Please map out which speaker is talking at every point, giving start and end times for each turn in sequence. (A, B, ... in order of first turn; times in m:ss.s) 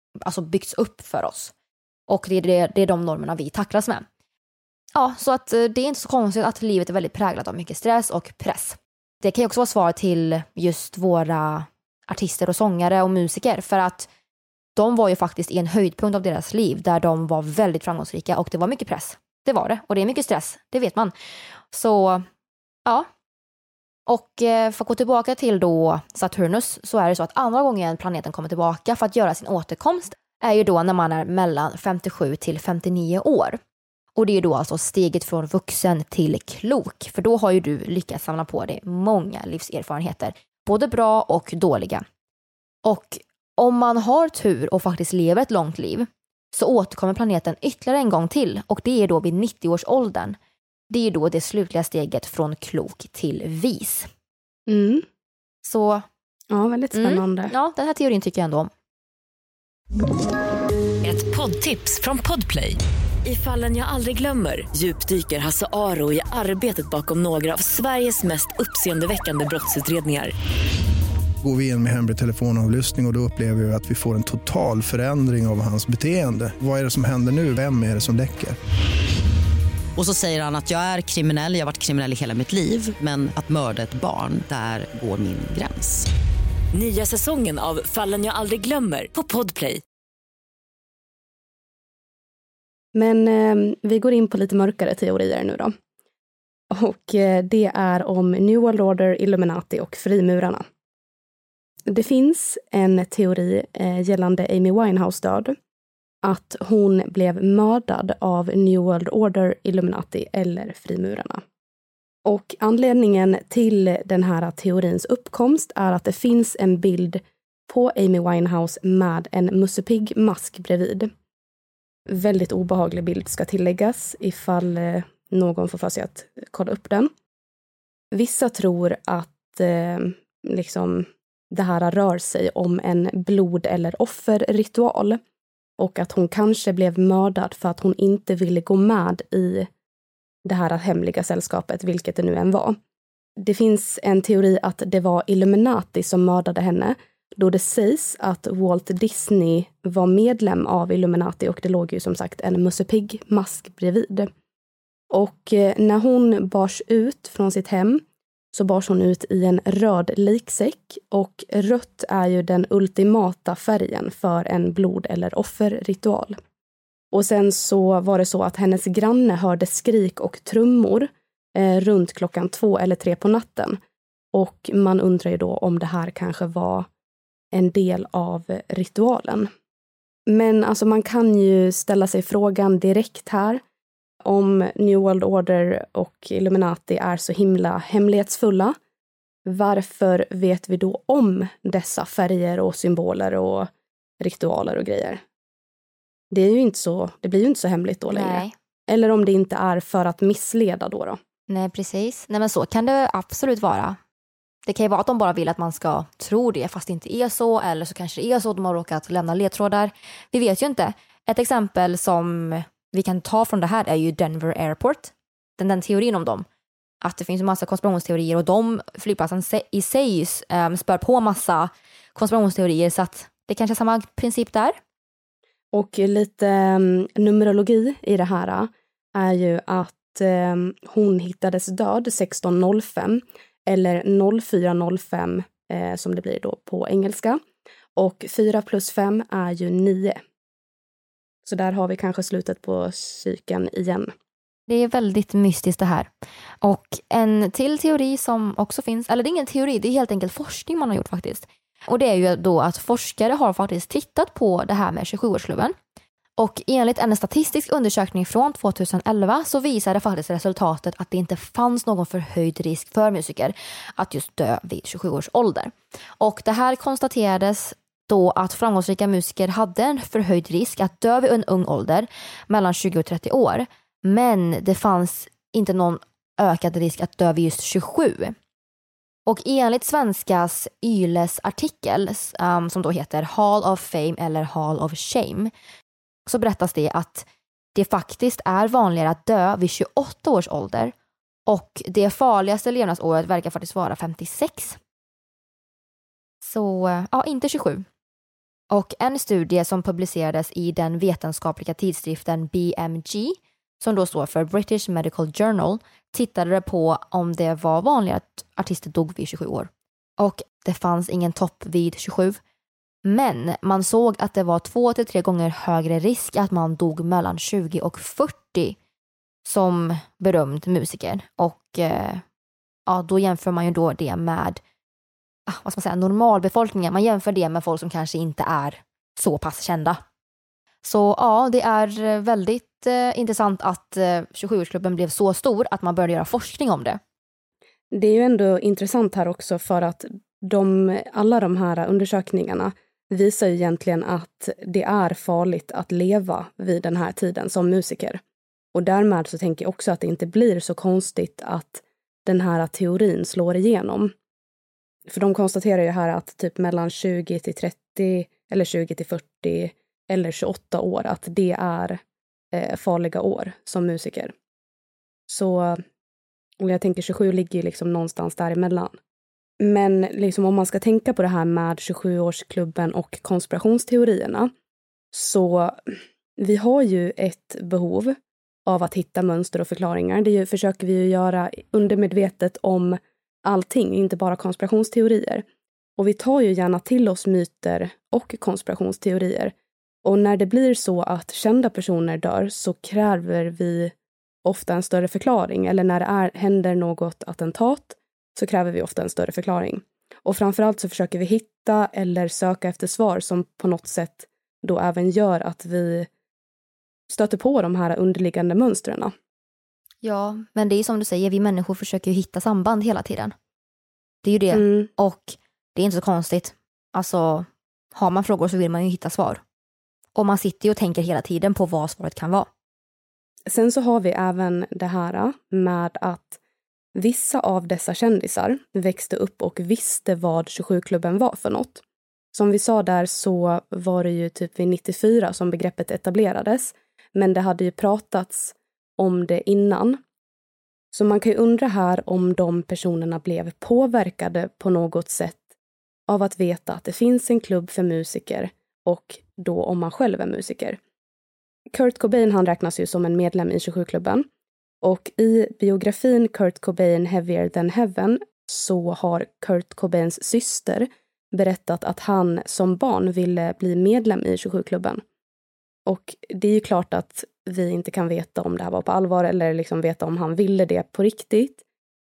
0:00.2-0:01.5 A
0:02.1-0:04.0 A
0:04.9-0:14.1 A
0:14.8-0:21.1 A
0:21.7-0:22.2 A
0:24.1-0:33.6 A
0:34.2-0:42.0 A
0:42.8-0:50.4 A
0:50.9-0:54.1 A
0:54.7-0:55.0 B
0:55.6-0:56.0 A
0:56.5-0:57.5 B
0:56.9-0:58.7 A
1:01.0-1:10.3 C
1:11.4-1:18.6 D
1:20.0-1:26.1 E
1:26.7-1:29.8 C
1:32.9-1:35.7 B
1:36.7-1:40.6 B
1:41.9-1:45.5 B
1:46.2-1:51.4 B
1:52.2-2:01.1 B
2:02.1-2:07.1 B
2:08.1-2:15.2 B
2:15.8-2:19.7 B
2:20.4-2:22.8 B
2:23.4-2:34.3 B
2:35.1-2:46.4 B
2:47.1-2:53.8 B
2:54.3-2:56.9 B
2:57.5-2:59.5 B
3:00.3-3:03.6 B
3:04.2-3:08.8 B
3:09.4-3:13.7 B
3:14.2-3:15.2 B
3:16.3-3:21.2 B
3:18.1-3:18.5 A
3:21.5-3:24.0 A
3:24.6-3:36.4 A
3:37.0-3:44.8 A
3:45.7-3:57.4 B
3:58.0-4:00.2 B
4:01.4-4:04.1 B
4:04.7-4:06.1 A
4:06.6-4:15.7 A
4:16.4-4:38.3 A
4:39.2-4:45.5 A
4:46.3-4:50.9 A
4:51.5-4:54.8 A
4:56.4-4:57.8 A
4:58.7-5:12.4 A
5:13.0-5:18.8 A
5:19.4-5:22.2 A
5:22.9-5:24.6 A
5:25.5-5:30.0 A
5:30.8-5:37.0 A
5:37.9-5:48.2 B
5:48.7-5:54.1 B
5:55.1-6:02.0 B
6:02.5-6:04.3 B
6:05.3-6:05.8 B
6:06.6-6:09.0 B
6:09.6-6:14.5 B
6:15.1-6:18.2 B
6:18.7-6:25.4 B
6:26.0-6:29.5 B
6:30.0-6:33.9 B
6:34.4-6:46.1 B
6:47.1-6:49.1 B
6:50.0-6:53.3 A
6:54.2-6:59.4 A
6:54.5-6:54.9 B
7:00.1-7:02.5 A
7:03.5-7:06.4 B
7:06.9-7:11.8 B
7:12.3-7:20.0 B
7:20.9-7:25.4 B
7:26.1-7:30.8 B
7:31.7-7:34.2 B
7:34.8-7:45.0 B
7:45.9-7:51.6 B